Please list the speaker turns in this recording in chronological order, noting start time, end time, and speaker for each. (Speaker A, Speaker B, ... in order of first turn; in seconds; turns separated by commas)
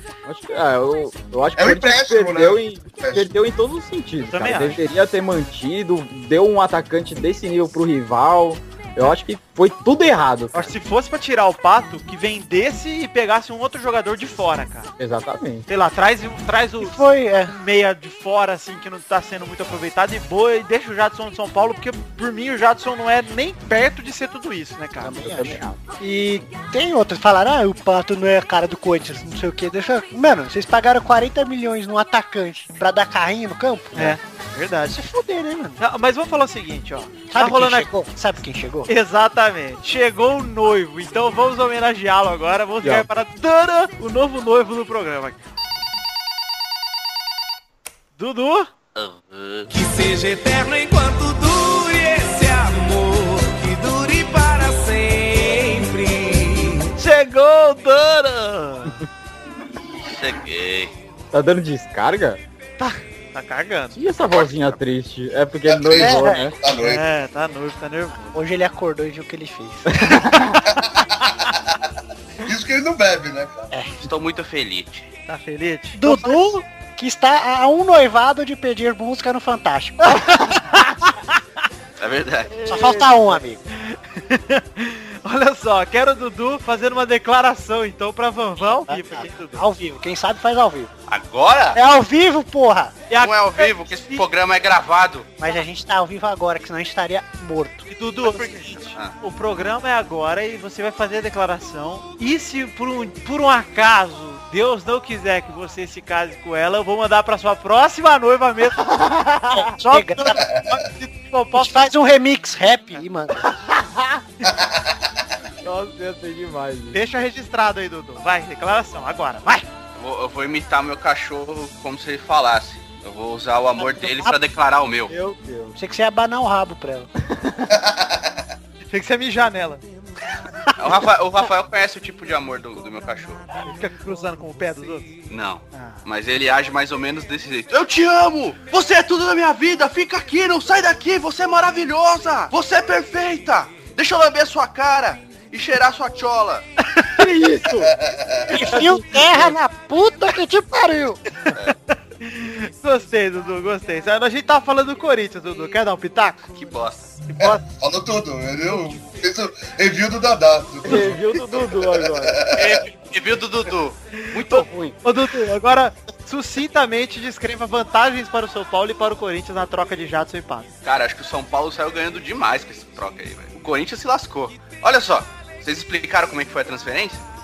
Speaker A: 0.2-10.7, Speaker B: 1.6-3.3, Speaker C: 4.2-4.8, Speaker C: 10.5-14.9, Speaker A: 15.0-15.7, Speaker C: 15.7-25.4, Speaker D: 16.8-17.6, Speaker A: 25.0-25.8, Speaker D: 25.2-34.2, Speaker C: 33.9-35.0, Speaker D: 34.9-35.8, Speaker C: 35.8-37.9, Speaker D: 37.3-38.9, Speaker C: 38.9-45.4, Speaker A: 42.8-43.1, Speaker C: 48.2-48.7, Speaker E: 49.0-49.7, Speaker F: 49.7-56.9, Speaker C: 57.0-59.0, Speaker E: 60.1-60.9, Speaker A: 61.3-62.4, Speaker C: 62.8-64.0, Speaker A: 63.9-66.5, Speaker B: 64.2-64.8, Speaker B: 65.7-67.0, Speaker D: 66.0-66.5, Speaker C: 66.7-68.3, Speaker D: 68.3-70.0, Speaker A: 70.0-70.4, Speaker B: 70.7-71.8, Speaker B: 72.4-73.7, Speaker D: 73.7-74.1, Speaker E: 74.0-75.0, Speaker C: 75.3-76.6, Speaker D: 76.0-80.4, Speaker C: 80.1-81.4, Speaker E: 82.0-82.5, Speaker D: 82.7-83.6, Speaker A: 82.7-83.2, Speaker C: 83.7-89.7, Speaker D: 88.6-90.9, Speaker E: 91.1-91.8, Speaker D: 91.7-93.0, Speaker C: 93.1-94.2, Speaker E: 93.2-95.3, Speaker D: 95.4-97.9, Speaker C: 97.9-109.0, Speaker E: 98.2-99.1, Speaker D: 109.5-110.4, Speaker C: 109.7-111.8, Speaker D: 111.6-113.5, Speaker B: 114.4-115.2, Speaker A: 115.6-117.0, Speaker C: 116.9-119.7, Speaker E: 120.0-125.1, Speaker D: 123.8-124.3, Speaker A: 125.1-125.8, Speaker D: 125.8-127.1, Speaker B: 127.7-128.5, Speaker C: 128.9-129.8, Speaker E: 130.8-133.4, Speaker C: 133.7-135.1, Speaker E: 135.3-146.7, Speaker C: 135.7-136.0, Speaker C: 146.9-147.2, Speaker A: 147.2-147.9, Speaker B: 147.7-148.8, Speaker D: 148.5-151.2, Speaker A: 148.8-149.5, Speaker C: 152.2-156.5, Speaker E: 156.5-157.1, Speaker C: 157.3-157.6, Speaker B: 157.4-162.8, Speaker A: 160.8-162.4, Speaker E: 162.6-164.9, Speaker C: 164.3-170.7, Speaker E: 170.8-177.2